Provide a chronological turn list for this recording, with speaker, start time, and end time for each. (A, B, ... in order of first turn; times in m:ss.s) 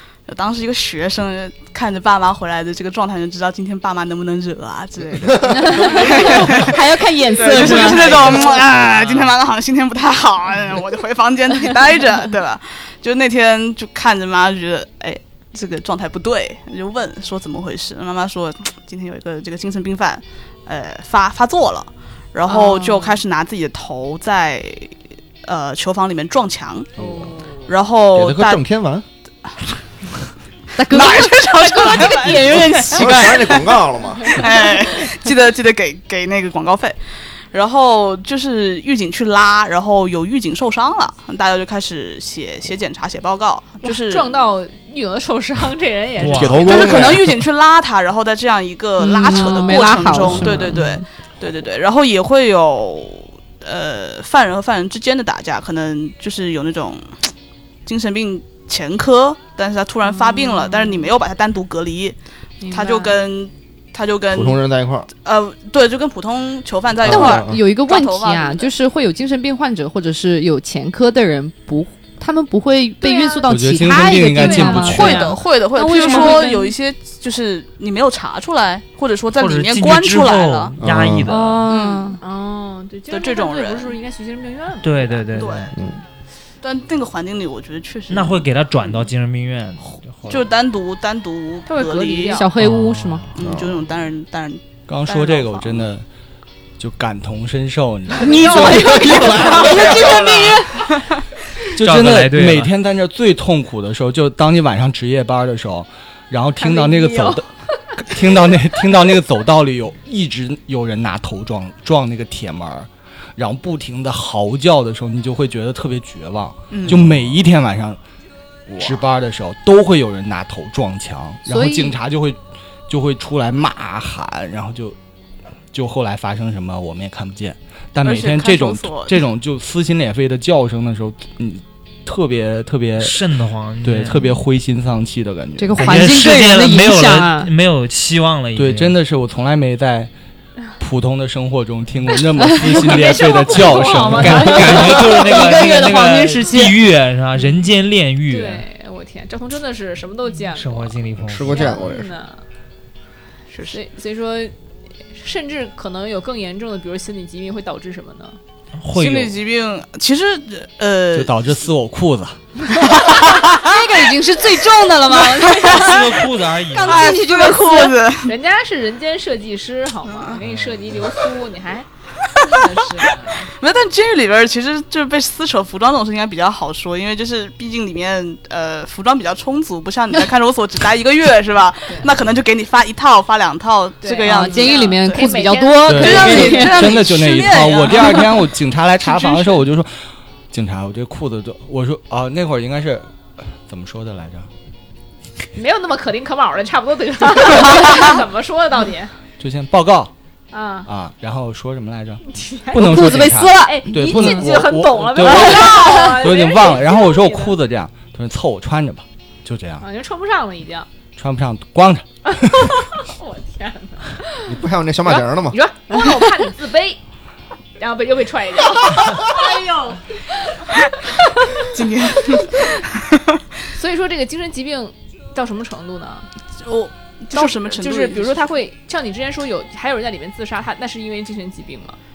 0:00.2-0:26.9 A
0:05.4-0:05.6 B
0:05.4-0:08.6 C
0:05.8-0:06.0 D
0:06.2-0:06.7 B
0:07.7-0:08.6 D
0:08.9-0:09.3 E
0:22.5-0:23.2 D
0:27.0-0:27.3 B
0:27.0-0:27.7 D
0:27.6-0:28.6 A
0:28.1-0:29.0 B
0:30.8-0:33.6 C
0:30.8-0:44.4 A
0:31.6-0:32.8 D
0:32.9-0:34.4 B
0:34.2-0:35.1 D
0:43.8-0:47.0 D
0:46.2-0:46.8 E
0:46.2-0:47.4 B
0:46.5-0:57.3 A
0:49.0-0:51.0 C
0:49.3-0:49.8 D
0:57.8-1:02.2 A
1:00.3-1:01.0 D
1:02.6-1:03.1 D
1:02.7-1:08.7 A
1:04.3-1:05.1 B
1:07.0-1:07.6 B
1:07.1-1:16.7 C
1:13.0-1:13.5 D
1:13.5-1:15.3 F
1:14.3-1:15.4 D
1:14.8-1:20.8 A
1:16.0-1:16.4 D
1:19.3-1:21.7 E
1:20.8-1:21.3 B
1:21.3-1:22.2 C
1:21.7-1:22.1 A
1:22.2-1:25.3 D
1:23.1-1:23.9 A
1:24.8-1:25.7 E
1:25.3-1:25.7 A
1:25.7-1:26.0 B
1:26.6-1:28.4 A
1:28.1-1:30.5 E
1:30.2-1:32.4 A
1:31.7-1:32.5 D
1:32.3-1:33.3 C
1:32.6-1:33.3 E
1:33.3-1:35.9 A
1:33.4-1:33.8 B
1:34.9-1:36.0 F
1:36.8-1:39.2 F
1:38.2-1:41.2 A
1:38.2-1:40.9 C
1:38.7-1:40.4 B
1:39.8-1:40.6 E
1:41.7-1:47.4 F
1:41.8-1:42.7 E
1:46.6-1:47.4 D
1:48.0-1:58.0 F
1:56.7-1:57.1 A
1:58.7-1:59.0 B
1:58.8-2:05.0 F
2:01.4-2:02.0 C
2:05.7-2:16.0 F
2:08.0-2:09.2 A
2:13.0-2:14.4 E
2:15.6-2:17.5 C
2:15.8-2:18.9 E
2:18.6-2:20.1 F
2:20.8-2:25.0 F
2:22.7-2:24.8 D
2:24.0-2:26.8 C
2:24.1-2:28.6 E
2:28.3-2:32.4 D
2:30.5-2:31.8 E
2:31.2-2:32.1 B
2:33.5-2:33.8 A
2:33.7-2:34.5 D
2:35.1-2:38.4 D
2:38.8-2:39.4 E
2:38.9-2:41.4 A
2:41.1-2:42.4 F
2:43.0-2:43.7 A
2:43.3-2:46.2 C
2:45.1-2:46.1 A
2:45.6-2:47.1 E
2:46.7-2:48.0 C
2:46.8-2:48.3 A
2:48.2-2:53.5 D
2:50.1-2:50.4 A
2:50.4-2:50.9 E
2:52.2-3:05.3 A
3:04.0-3:06.7 D
3:04.2-3:06.9 C
3:05.8-3:10.0 F
3:05.9-3:09.6 A
3:10.5-3:14.5 F
3:15.5-3:19.1 D
3:19.4-3:20.1 F
3:20.5-3:20.9 D
3:20.8-3:29.8 F
3:22.2-3:27.6 D
3:22.8-3:24.6 C
3:25.2-3:26.1 C
3:29.8-3:30.9 D
3:31.2-3:32.8 F
3:32.3-3:37.0 D
3:34.4-3:35.6 B
3:37.8-3:41.7 D
3:41.6-3:43.4 A
3:42.3-3:42.6 D
3:43.7-3:46.3 D
3:46.6-3:48.4 A
3:47.3-3:52.0 D